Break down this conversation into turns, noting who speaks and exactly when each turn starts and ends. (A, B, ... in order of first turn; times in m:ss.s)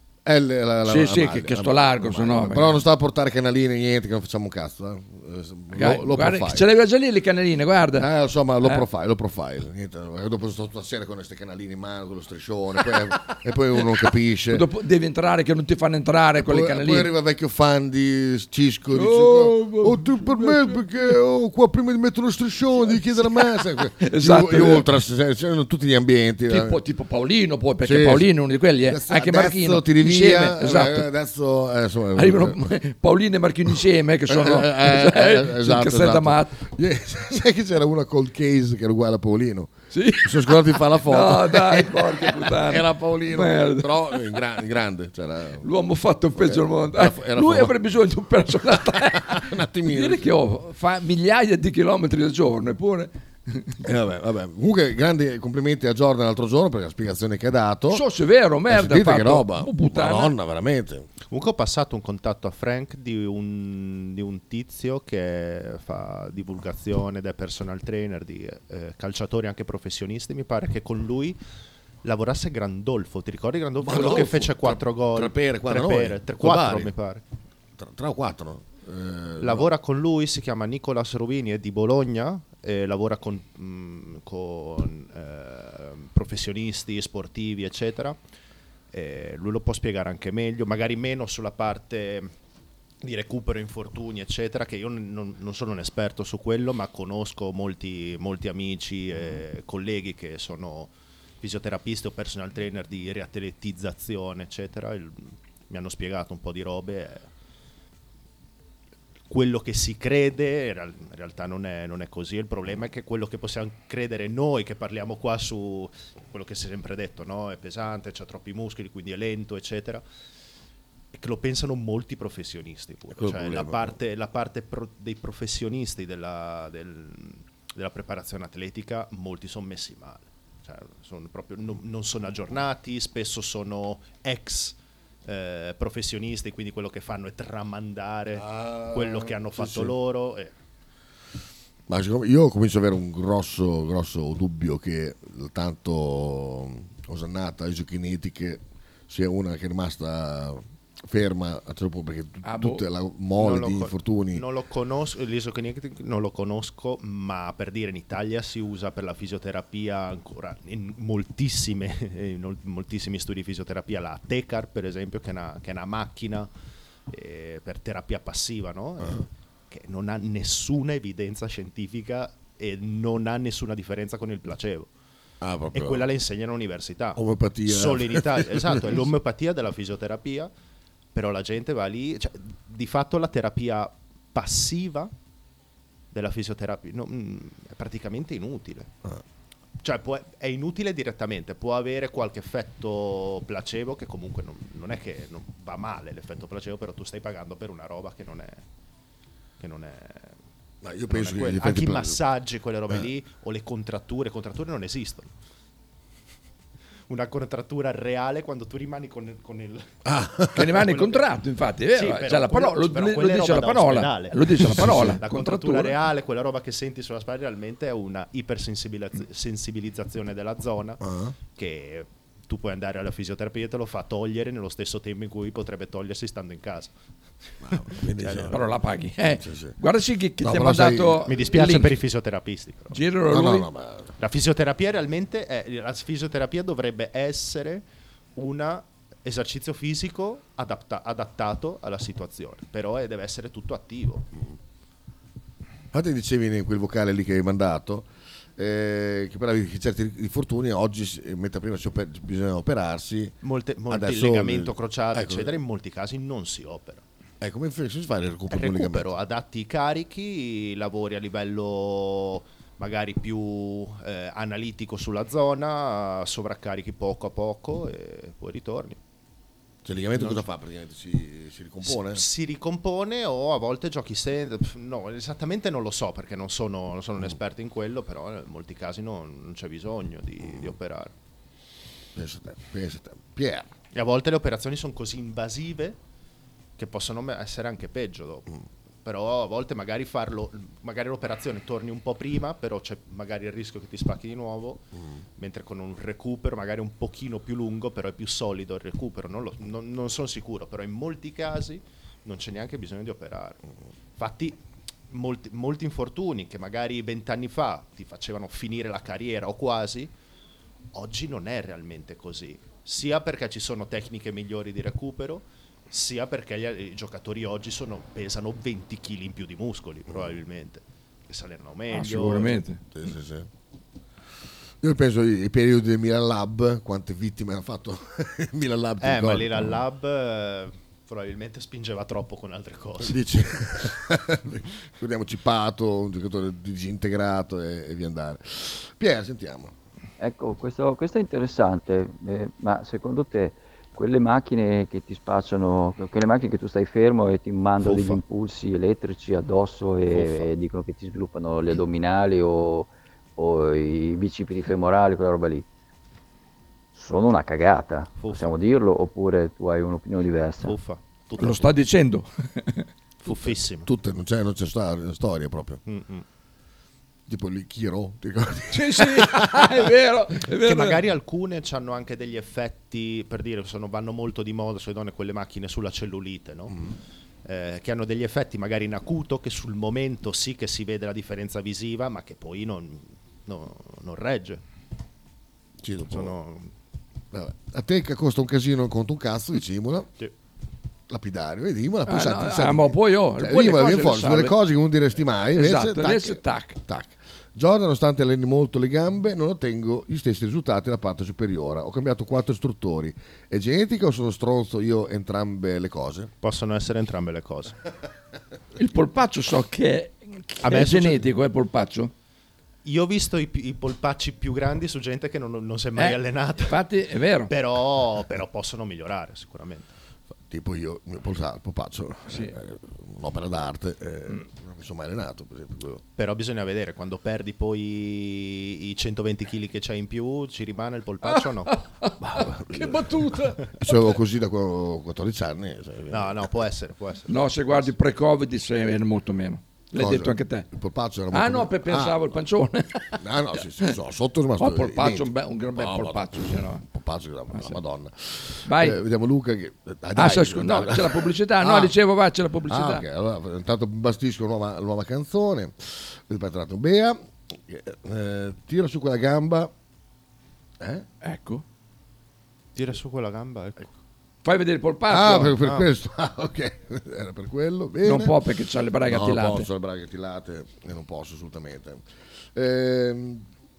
0:00.3-0:06.7 A
0:00.9-0:02.8 B
0:05.7-0:08.1 B
0:08.0-0:14.6 A
0:14.5-0:17.1 B
0:16.4-0:26.8 A
0:18.9-0:20.8 B
0:22.9-0:23.4 B
0:24.0-0:24.9 B
0:26.5-0:31.1 B
0:27.8-0:28.3 A
0:28.9-0:32.6 A
0:32.2-0:36.6 B
0:34.3-0:45.6 A
0:39.9-0:44.2 B
0:45.6-0:53.8 B
0:46.4-0:47.8 A
0:48.7-0:50.3 A
0:53.8-0:58.0 A
0:57.9-1:00.3 B
0:58.7-1:01.1 A
1:01.3-1:11.4 C
1:12.0-1:17.2 C
1:13.8-1:16.9 A
1:17.8-1:19.7 A
1:19.4-1:28.2 C
1:28.9-1:32.3 C
1:33.0-1:47.3 C
1:49.3-2:00.0 C
2:01.1-2:20.5 C
2:03.1-2:04.0 A
2:18.4-2:20.0 A
2:21.9-2:34.4 A
2:32.4-2:32.8 B
2:33.4-2:46.5 C
2:47.1-2:54.9 C
2:55.4-2:56.0 A
2:55.7-3:00.5 C
2:57.2-2:59.1 A
3:01.1-3:05.1 C
3:06.1-3:08.9 C
3:09.8-3:18.6 C
3:19.6-3:20.4 C
3:20.8-3:22.2 A
3:21.1-3:25.3 C
3:27.1-3:29.9 C
3:30.0-3:30.8 A
3:30.5-3:36.0 B
3:30.8-3:31.3 C
3:31.9-3:41.0 C
3:34.6-3:35.2 A
3:41.0-3:41.4 A
3:41.5-3:46.9 C
3:47.6-3:48.6 A
3:48.2-3:48.6 C
3:48.5-3:52.0 B
3:49.4-3:49.8 A
3:50.4-3:51.3 A
3:51.3-3:53.0 C
3:52.9-3:53.7 B
3:53.3-3:54.1 A
3:54.2-3:57.8 C
3:58.4-4:04.3 C
4:05.9-4:13.4 A
4:13.4-4:17.0 C
4:13.9-4:15.6 A
4:17.4-4:19.2 A
4:18.5-4:29.0 C
4:29.8-4:32.2 A
4:30.2-4:30.4 C
4:31.8-4:41.1 C
4:40.4-4:40.7 A
4:42.2-4:43.7 A
4:43.9-4:46.0 C
4:46.8-4:48.5 C
4:49.0-4:54.8 C
4:55.0-4:55.2 A
4:55.4-5:03.6 C
5:04.2-5:04.6 C
5:05.1-5:10.1 C
5:10.9-5:22.6 C
5:20.1-5:20.4 A
5:21.9-5:22.8 B
5:22.9-5:23.5 A
5:24.8-5:29.8 A
5:29.0-5:33.2 C
5:33.0-5:39.7 A
5:40.2-5:55.6 D
5:47.8-5:48.2 C
5:50.1-5:50.5 C
5:57.0-6:00.8 D
5:58.2-5:58.5 C
6:00.6-6:01.7 C
6:01.4-6:02.9 B
6:03.2-6:03.9 C
6:03.3-6:05.8 A
6:05.9-6:06.2 C
6:07.3-6:09.7 A
6:08.7-6:11.0 B
6:10.6-6:16.7 C
6:16.7-6:17.0 A
6:17.4-6:24.6 C
6:25.8-6:26.3 A
6:26.1-6:26.7 C
6:27.3-6:30.1 A
6:31.1-6:46.3 A
6:32.1-6:34.6 B
6:35.6-6:36.8 B
6:46.4-6:47.8 C
6:48.8-6:52.1 B
6:50.6-6:51.3 C
6:52.8-6:56.8 C
6:56.0-6:57.5 B
6:57.5-6:59.9 C
7:00.5-7:06.0 A
7:02.3-7:02.5 B
7:06.2-7:11.8 C
7:11.2-7:14.1 B
7:12.2-7:16.5 A
7:16.1-7:17.9 C
7:17.3-7:20.7 B
7:20.0-7:22.3 A
7:21.3-7:23.2 B
7:23.2-7:32.0 A
7:24.6-7:26.8 B
7:27.5-7:27.8 B
7:28.7-7:29.0 B
7:30.2-7:33.0 B
7:32.7-7:39.7 A
7:40.8-7:41.1 A
7:41.2-7:41.6 B
7:42.8-7:43.9 C
7:44.4-7:45.7 B
7:45.1-7:48.4 A
7:48.0-7:49.7 B
7:49.1-7:52.0 A
7:52.6-7:53.5 A